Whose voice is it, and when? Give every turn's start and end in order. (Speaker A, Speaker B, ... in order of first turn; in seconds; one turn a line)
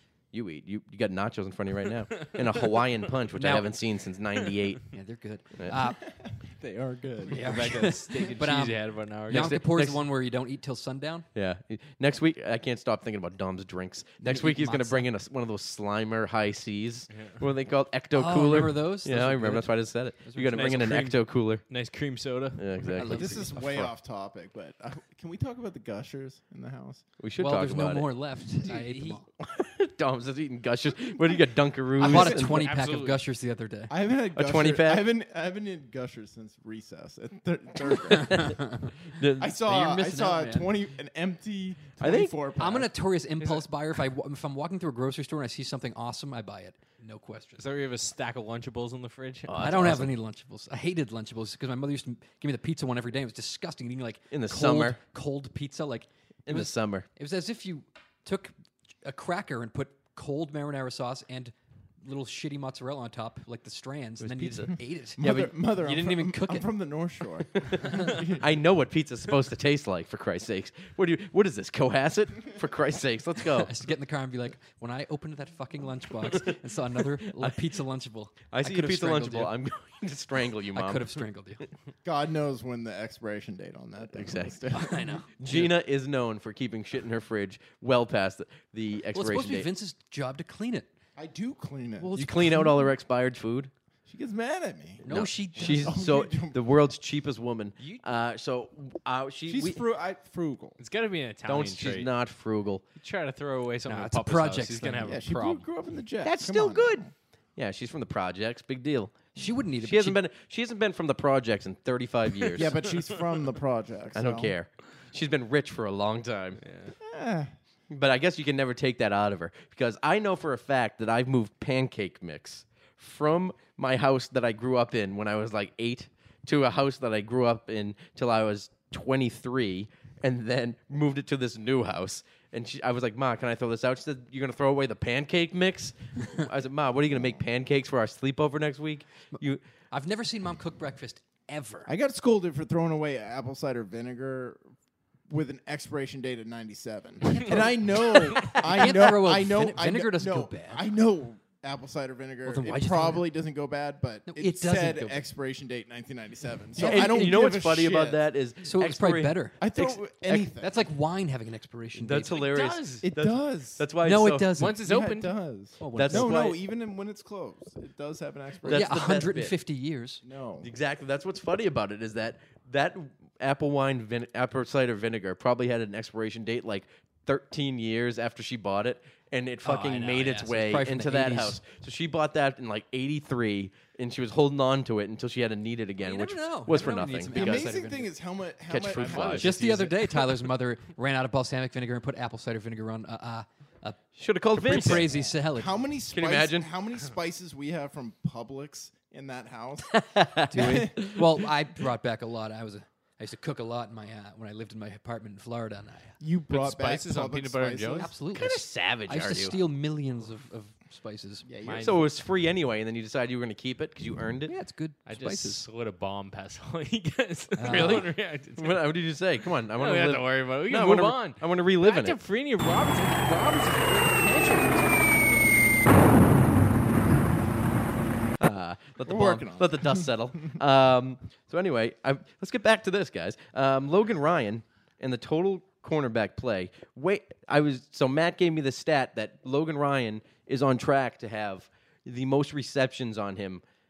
Speaker A: 0.3-4.8
Speaker B: 2.2-2.8
Speaker C: 3.4-3.7
Speaker C: 4.9-6.0
Speaker D: 6.2-7.8
Speaker C: 7.3-11.2
Speaker B: 7.4-9.5
Speaker A: 9.3-10.0
Speaker A: 11.3-21.6
Speaker C: 14.2-15.1
Speaker B: 17.1-17.4
Speaker C: 18.1-20.9
Speaker B: 20.5-21.2
Speaker B: 21.7-22.7
Speaker A: 22.6-23.4
Speaker C: 23.0-23.9
Speaker D: 23.1-27.0
Speaker A: 27.2-28.1
Speaker C: 27.4-29.3
Speaker B: 28.7-29.2
Speaker A: 29.4-32.7
Speaker C: 32.0-33.9
Speaker B: 32.1-33.2
Speaker D: 33.9-38.6
Speaker A: 34.3-35.1
Speaker A: 38.1-38.5
Speaker C: 38.3-38.9
Speaker A: 39.1-39.5
Speaker D: 39.4-42.9
Speaker C: 39.6-40.8
Speaker A: 42.0-42.4
Speaker C: 42.6-47.7
Speaker B: 47.6-49.7
Speaker A: 49.5-50.1
Speaker C: 49.6-66.7
Speaker A: 54.3-55.0
Speaker A: 56.5-57.1
Speaker A: 64.2-65.5
Speaker D: 65.2-68.4
Speaker A: 67.5-73.7
Speaker C: 73.6-79.5
Speaker A: 77.3-77.7
Speaker A: 78.5-81.2
Speaker C: 80.7-81.6
Speaker D: 82.0-85.2
Speaker A: 84.2-84.7
Speaker C: 84.7-85.3
Speaker A: 85.4-89.7
Speaker C: 89.1-90.9
Speaker D: 91.2-92.2
Speaker C: 92.0-92.7
Speaker A: 92.1-93.7
Speaker D: 94.1-95.0
Speaker A: 95.0-99.8
Speaker C: 95.0-96.0
Speaker D: 95.5-96.6
Speaker D: 99.5-100.8
Speaker B: 100.8-102.1
Speaker A: 101.5-102.8
Speaker B: 103.0-105.7
Speaker C: 103.8-105.1
Speaker D: 105.0-107.1
Speaker A: 106.2-107.0
Speaker A: 107.6-112.8
Speaker C: 109.3-110.2
Speaker B: 112.4-112.9
Speaker D: 112.6-114.5
Speaker A: 114.1-116.6
Speaker B: 116.6-116.9
Speaker D: 117.0-117.5
Speaker A: 117.9-139.6
Speaker C: 139.9-141.9
Speaker D: 141.9-144.6
Speaker D: 145.3-158.2
Speaker C: 147.3-150.8
Speaker C: 152.4-153.3
Speaker C: 154.3-155.3
Speaker C: 156.8-157.4
Speaker A: 156.8-160.5
Speaker C: 158.6-159.7
Speaker D: 159.6-160.7
Speaker C: 160.6-162.4
Speaker A: 162.0-164.5
Speaker B: 162.4-163.1
Speaker D: 163.0-163.9
Speaker C: 164.0-164.9
Speaker B: 164.6-165.4
Speaker D: 164.7-168.9
Speaker C: 165.8-166.5
Speaker A: 165.9-166.6
Speaker A: 168.6-169.5
Speaker C: 168.7-170.2
Speaker D: 170.2-170.7
Speaker A: 170.6-187.6
Speaker C: 179.6-181.6
Speaker C: 186.0-188.1
Speaker D: 187.3-189.9
Speaker A: 188.7-189.5
Speaker B: 189.0-189.5
Speaker C: 189.4-194.0
Speaker A: 194.2-195.1
Speaker C: 194.5-195.9
Speaker D: 194.9-200.0
Speaker A: 196.1-196.7
Speaker A: 199.9-201.5
Speaker C: 200.5-206.2
Speaker D: 200.5-200.9
Speaker D: 206.2-208.1
Speaker B: 206.5-208.1
Speaker C: 208.0-211.4
Speaker A: 208.3-209.6
Speaker D: 211.4-212.0
Speaker B: 211.6-211.9
Speaker A: 211.7-214.5
Speaker C: 214.5-215.6
Speaker B: 215.0-218.8
Speaker C: 217.6-218.1
Speaker A: 217.7-218.0
Speaker A: 218.6-222.2
Speaker B: 219.8-225.4
Speaker A: 228.4-243.6
Speaker D: 229.0-230.1